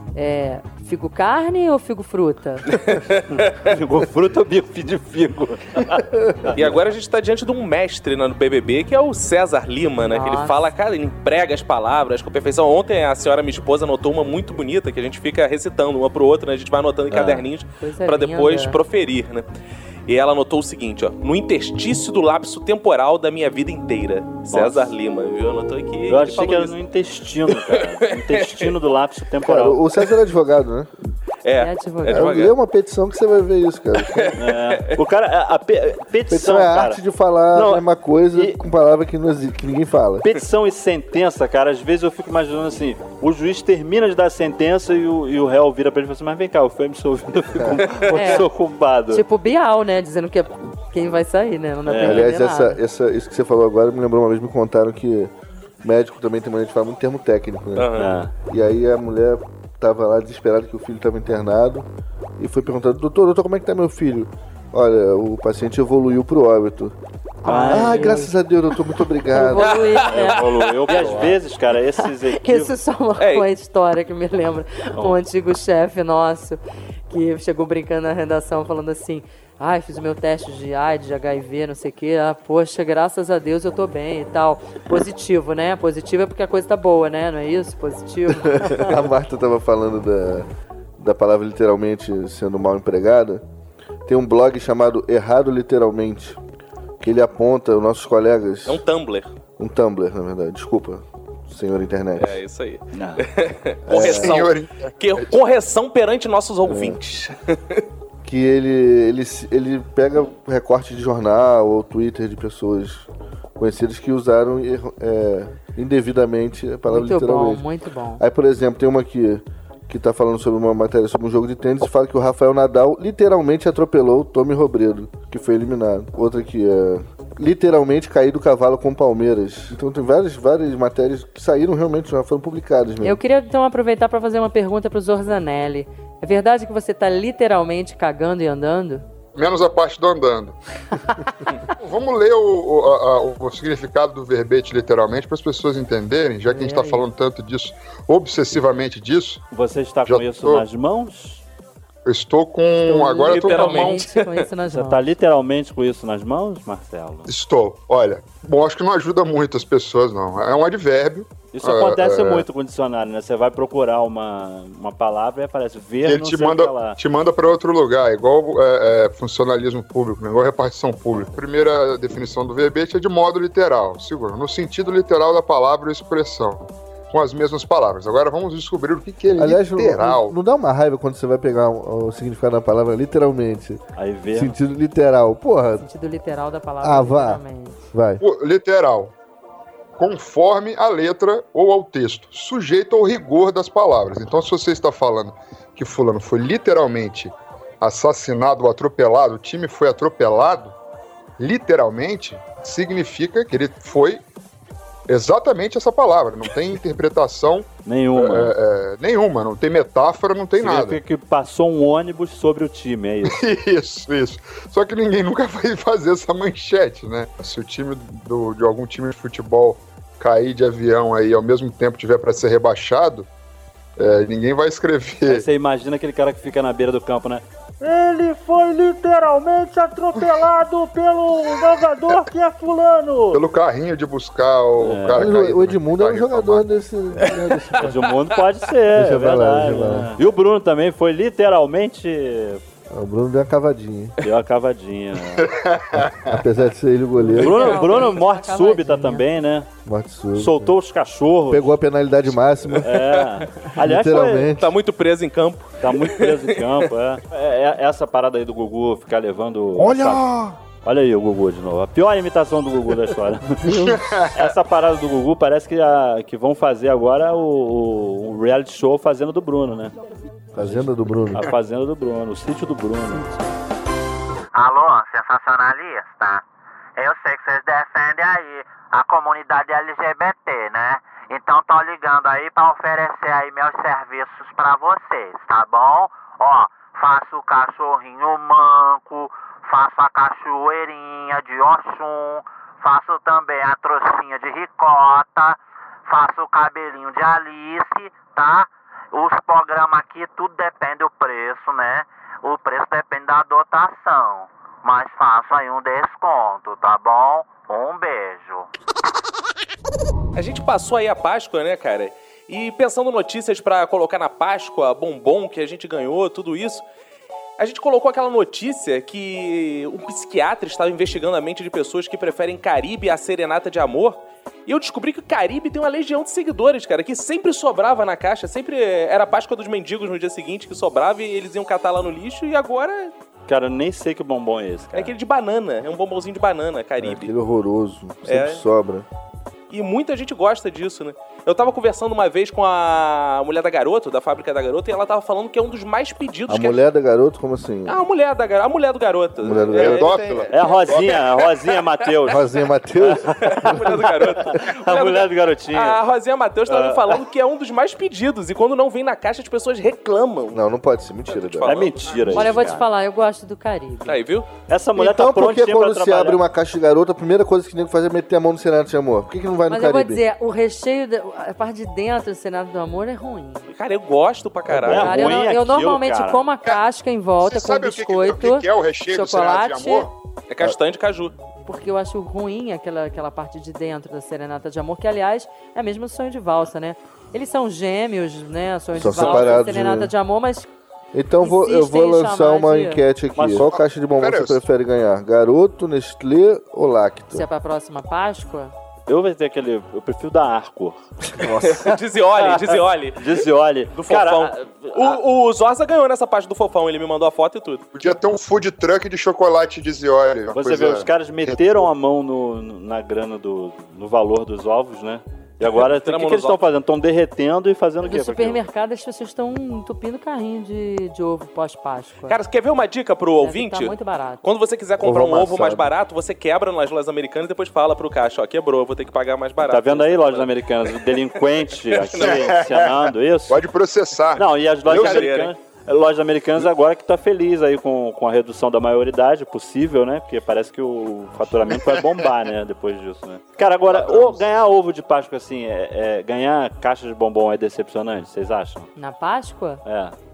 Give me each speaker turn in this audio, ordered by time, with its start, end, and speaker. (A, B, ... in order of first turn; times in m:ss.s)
0:00.2-0:02.8 A
0:02.7-0:03.7 B
0:03.4-0:06.7 C
0:06.5-0:19.5 B
0:10.0-0:10.7 A
0:17.1-0:17.5 C
0:17.8-0:18.8 A
0:20.1-0:26.8 B
0:24.5-0:24.9 C
0:26.1-0:29.8 C
0:27.5-0:28.7 B
0:29.5-0:30.9 D
0:31.4-0:32.5 B
0:31.6-0:32.4 A
0:32.1-0:34.4 D
0:34.0-0:35.0 B
0:34.4-0:37.0 C
0:36.3-0:40.3 D
0:37.5-0:38.6 C
0:40.2-0:49.2 C
0:48.1-0:48.5 A
0:49.1-0:52.8 A
0:51.9-0:52.3 C
0:52.0-0:55.3 D
0:55.8-1:01.9 D
0:57.8-0:58.1 B
0:58.0-0:58.3 C
1:02.4-1:07.0 D
1:07.4-1:08.4 A
1:07.5-1:08.2 C
1:07.7-1:10.0 D
1:09.3-1:11.3 A
1:09.7-1:11.1 B
1:10.0-1:12.8 C
1:12.0-1:29.0 A
1:13.2-1:13.5 B
1:28.5-1:30.5 D
1:31.0-1:33.4 D
1:34.1-1:36.4 D
1:37.0-1:38.8 D
1:38.7-1:39.3 B
1:39.6-1:42.4 D
1:42.2-1:47.8 B
1:42.9-1:43.3 C
1:43.9-1:44.5 D
1:43.9-1:45.3 E
1:46.7-1:47.0 D
1:48.2-1:57.6 D
1:56.9-1:58.2 A
1:58.2-2:13.2 D
2:13.0-2:19.1 A
2:19.4-2:20.6 E
2:21.7-2:29.4 E
2:26.4-2:27.1 A
2:29.5-2:31.4 C
2:30.0-2:30.6 E
2:32.0-2:34.0 E
2:32.8-2:35.0 A
2:33.3-2:34.5 B
2:34.7-2:37.3 C
2:37.3-2:42.5 E
2:41.5-2:47.0 C
2:46.0-3:00.3 E
2:59.4-3:03.8 D
3:04.0-3:04.6 C
3:04.3-3:05.8 D
3:05.8-3:07.8 A
3:06.8-3:08.2 D
3:08.2-3:09.1 E
3:10.0-3:20.8 E
3:21.4-3:24.2 E
3:25.1-3:31.0 E
3:27.8-3:28.6 C
3:30.6-3:33.4 C
3:33.2-3:43.3 E
3:44.0-3:45.4 E
3:45.2-3:53.4 C
3:53.3-3:56.6 E
3:54.8-3:55.4 C
3:55.2-3:57.9 D
3:57.5-3:58.2 B
3:57.8-4:02.6 C
3:58.9-4:00.2 D
4:02.9-4:04.2 D
4:04.2-4:05.5 C
4:05.4-4:06.4 E
4:06.2-4:07.8 D
4:07.2-4:09.3 A
4:07.3-4:09.7 C
4:09.8-4:10.8 D
4:10.4-4:11.8 C
4:11.5-4:12.9 D
4:12.8-4:14.6 C
4:13.1-4:13.5 B
4:13.8-4:14.8 D
4:14.6-4:16.9 B
4:15.8-4:20.2 C
4:19.8-4:20.6 E
4:20.8-4:29.9 C
4:23.6-4:24.5 E
4:30.5-4:31.5 D
4:30.6-4:33.3 C
4:33.2-4:33.4 A
4:34.6-4:36.4 F
4:37.0-5:08.7 F
5:10.4-5:16.8 B
5:17.6-5:33.1 B
5:33.5-5:35.1 C
5:34.9-5:37.3 B
5:37.0-5:39.1 D
5:38.3-5:38.6 B
5:39.7-5:46.8 B
5:46.5-5:48.0 D
5:47.9-5:52.4 B
5:49.4-5:50.2 D
5:49.7-5:51.2 E
5:50.5-5:52.5 C
5:52.3-5:54.1 D
5:53.0-5:56.0 C
5:53.1-6:00.6 B
5:56.7-5:57.2 C
6:00.5-6:01.8 D
6:01.3-6:02.6 B
6:01.6-6:02.9 C
6:02.3-6:04.2 A
6:04.1-6:04.5 B
6:04.7-6:06.4 C
6:05.0-6:10.2 D
6:09.7-6:13.7 A
6:13.7-6:15.4 B
6:14.7-6:15.0 D
6:14.8-6:16.5 C
6:15.0-6:20.1 A
6:17.4-6:20.1 E
6:20.5-6:21.3 B
6:21.7-6:30.7 A
6:29.0-6:30.1 D
6:29.2-6:29.6 B
6:31.1-6:37.5 D
6:31.4-6:33.0 A
6:33.4-6:33.7 C
6:33.7-6:34.6 E
6:37.3-6:38.7 A
6:39.1-6:41.0 C
6:41.4-6:41.9 D
6:41.4-6:48.1 B
6:42.4-6:45.2 C
6:47.9-6:51.6 E
6:50.5-6:58.6 C
6:55.6-6:56.6 B
6:58.0-7:02.4 A
7:02.3-7:12.6 B
7:03.4-7:04.4 A
7:05.0-7:05.9 D
7:09.7-7:13.6 C
7:12.2-7:15.3 E
7:14.3-7:28.9 C
7:14.9-7:15.5 B
7:23.9-7:24.4 E
7:29.0-7:29.8 A
7:29.8-7:30.2 C